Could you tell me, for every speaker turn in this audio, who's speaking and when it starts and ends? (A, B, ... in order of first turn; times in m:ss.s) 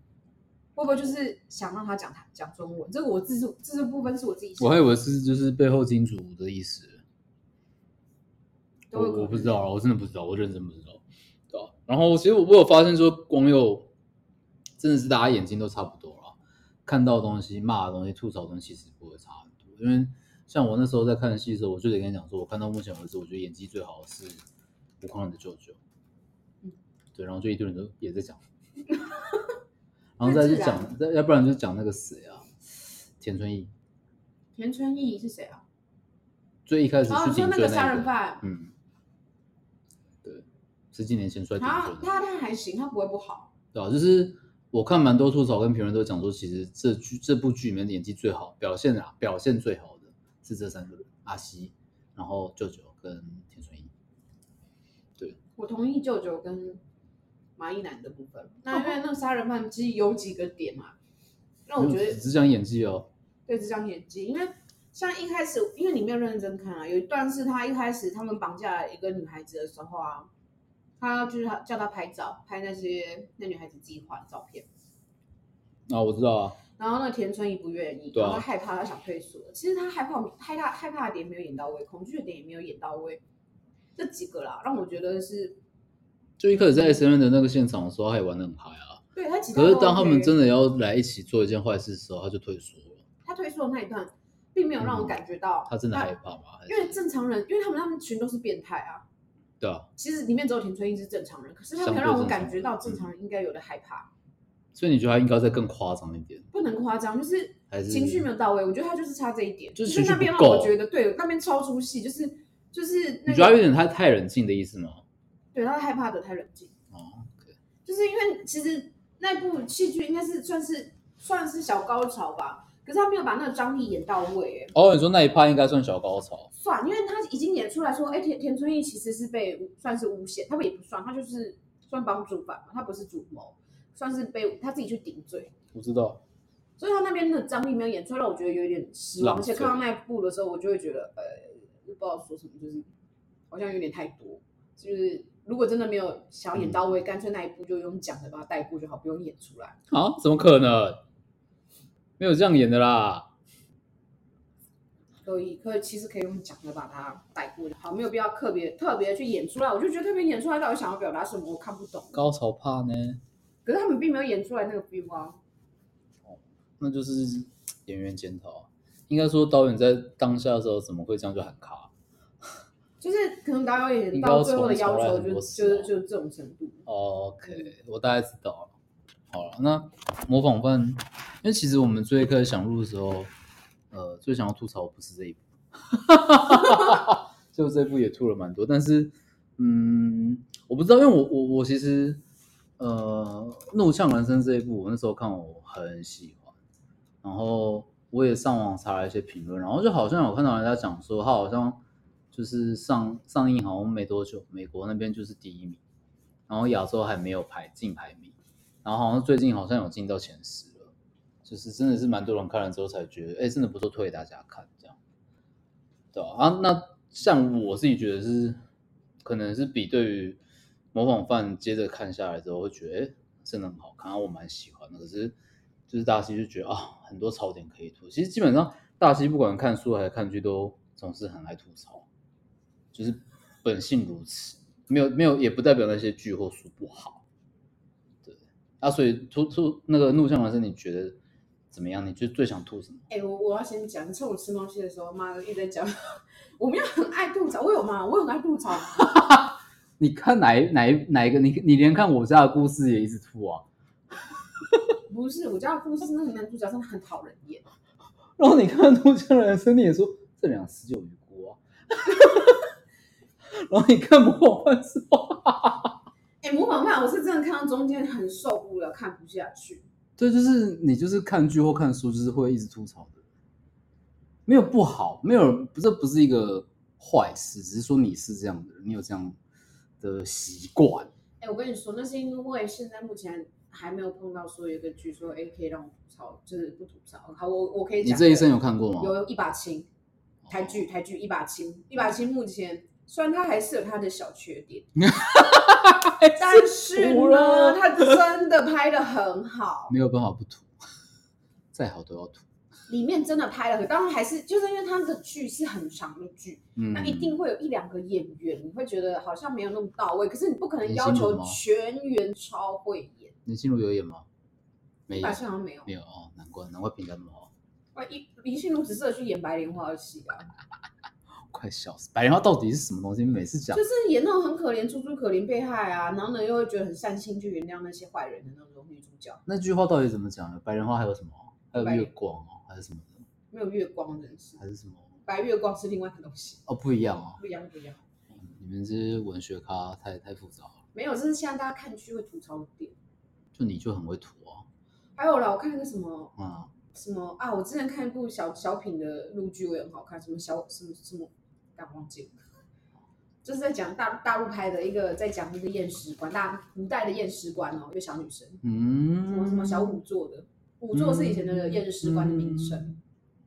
0:00.7-0:04.8 A
0:04.6-0:07.0 B
0:08.9-0:09.6 A
0:08.9-0:13.9 B
0:14.8-0:24.4 B
0:25.0-0:25.8 B
0:27.1-0:28.4 B
0:28.9-0:29.5 A
0:30.2-0:32.5 B
0:30.2-0:30.9 A
0:33.2-0:33.7 B
0:34.6-0:35.6 A
0:36.6-0:38.7 B
0:37.1-0:38.4 A
0:40.2-0:42.1 B
0:41.6-0:43.5 A
0:43.7-0:53.9 B
0:55.6-0:56.8 A
0:57.6-1:00.9 A
1:01.7-1:02.2 A
1:01.8-1:03.1 B
1:03.5-1:10.3 A
1:11.0-1:14.7 A
1:15.9-1:16.6 B
1:16.8-1:23.2 A
1:18.1-1:18.4 B
1:24.0-1:25.6 A
1:26.4-1:29.0 B
1:26.5-1:27.0 A
1:29.1-1:30.3 A
1:29.5-1:33.0 B
1:33.2-1:36.1 A
1:34.8-1:35.2 B
1:35.7-1:37.0 B
1:36.7-1:39.0 A
1:39.6-1:39.9 B
1:40.0-1:44.1 A
1:41.8-1:43.1 B
1:44.7-1:46.4 B
1:46.5-1:53.6 A
1:47.7-1:48.3 B
1:49.8-1:50.8 B
1:53.3-1:55.0 B
1:55.5-1:56.7 A
1:56.9-1:57.5 B
1:57.8-2:04.7 A
2:04.7-2:06.5 B
2:06.5-2:15.5 A
2:15.7-2:16.2 B
2:16.8-2:22.8 A
2:19.2-2:19.8 B
2:23.5-2:29.8 A
2:26.5-2:26.8 B
2:29.9-2:31.0 B
2:32.2-2:33.3 B
2:35.2-2:42.2 A
2:42.1-2:43.2 B
2:43.6-2:45.4 A
2:46.2-2:51.9 B
2:53.0-2:56.8 A
2:54.1-2:55.9 B
2:56.8-2:58.7 B
2:59.3-3:03.3 B
3:03.9-3:12.2 B
3:12.8-3:16.5 B
3:17.2-3:21.8 B
3:22.3-3:25.8 B
3:26.5-3:30.9 B
3:31.4-3:35.0 B
3:36.1-3:38.6 B
3:39.2-3:40.4 B
3:40.9-3:45.3 B
3:45.9-3:52.1 B
3:52.9-3:57.2 B
3:58.2-4:01.2 B
4:01.7-4:03.0 B
4:03.1-4:09.2 A
4:09.0-4:13.6 B
4:15.1-4:17.6 A
4:18.4-4:22.7 B
4:23.5-4:25.9 B
4:26.4-4:29.8 A
4:30.2-4:33.2 B
4:34.4-4:39.4 B
4:40.0-4:41.1 B
4:41.4-4:49.9 A
4:48.0-4:49.1 B
4:50.5-4:55.0 A
4:55.0-4:58.2 B
4:56.2-4:59.9 A
4:59.9-5:00.7 B
5:01.7-5:02.4 B
5:02.9-5:13.4 A
5:06.8-5:07.3 B
5:10.8-5:11.6 B
5:13.4-5:14.2 B
5:15.1-5:17.5 B
5:15.1-5:15.9 A
5:17.9-5:20.5 A
5:21.5-5:23.8 B
5:23.7-5:29.4 A
5:29.4-5:33.2 B
5:31.8-5:32.1 A
5:33.5-5:34.6 A
5:34.6-5:35.1 B
5:35.2-5:36.6 A
5:36.7-5:37.4 B
5:37.4-5:38.0 A
5:38.3-5:40.8 B
5:40.9-5:42.9 A
5:43.5-5:44.6 B
5:45.2-5:46.4 A
5:46.4-5:46.7 B
5:46.9-5:52.4 A
5:53.4-5:58.6 A
5:58.6-6:00.0 B
5:59.2-6:02.9 A
6:00.9-6:03.0 B